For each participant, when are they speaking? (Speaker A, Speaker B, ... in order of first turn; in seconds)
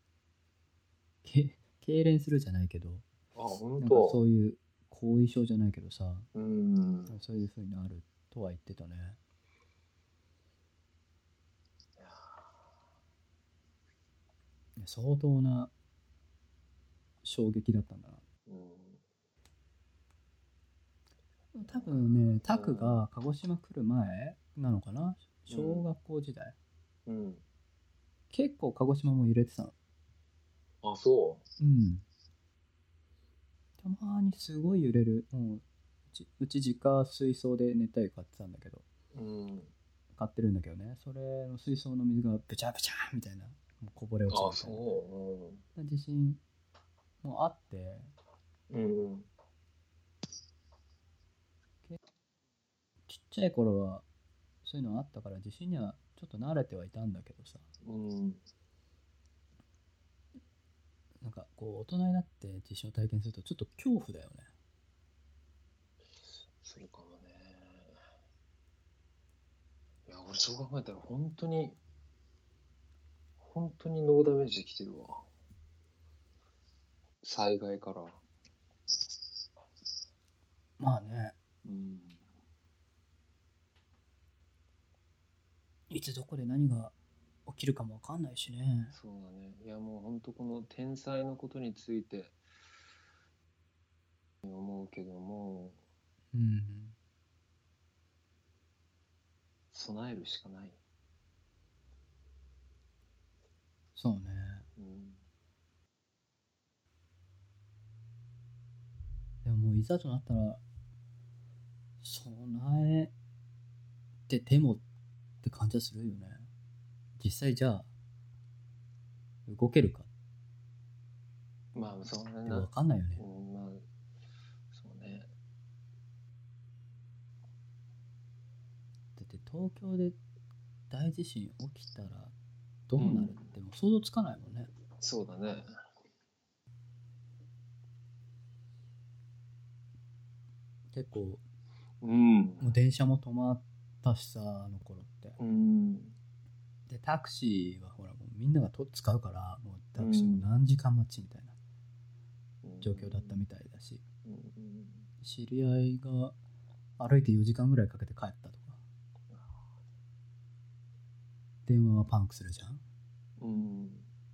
Speaker A: 1.2-3.0, 3.8-6.3, 7.1-9.2, 14.8-15.7, 17.2-18.2, 21.5-26.5, 28.3-29.7, 31.6-32.0, 33.8-38.8, 40.1-44.8, 45.8-46.4, 47.2-48.1, 53.1-54.0, 54.6-57.7, 61.2-64.5, 80.8-81.3, 85.9-86.9, 87.5-88.9, 96.3-97.0, 104.0-104.7, 109.4-110.6, 112.0-113.1, 114.3-114.8, 115.4-116.5, 117.2-117.9, 119.5-120.1, 122.5-123.2, 129.2-130.2, 130.9-132.3, 132.9-134.7, 140.9-141.4, 142.6-145.4, 146.9-151.6, 152.8-154.0, 155.2-156.4, 157.0-158.8, 161.7-162.8
Speaker B: 3.3-4.2, 6.3-7.2, 12.0-12.4, 18.5-19.0, 21.7-23.0, 25.5-25.9, 27.1-27.4, 30.8-31.4, 39.1-39.7, 44.3-45.6, 48.7-49.3, 57.8-58.4, 66.6-67.9, 70.1-71.8, 73.4-75.2, 77.2-78.2, 81.6-82.2, 88.9-92.3, 94.4-95.8, 99.7-100.8, 104.8-105.2, 121.7-123.8, 124.7-125.3, 133.0-133.5, 135.0-135.7, 142.0-142.7, 145.4-146.2, 150.0-150.5, 152.6-153.4, 154.2-155.1, 163.4-164.1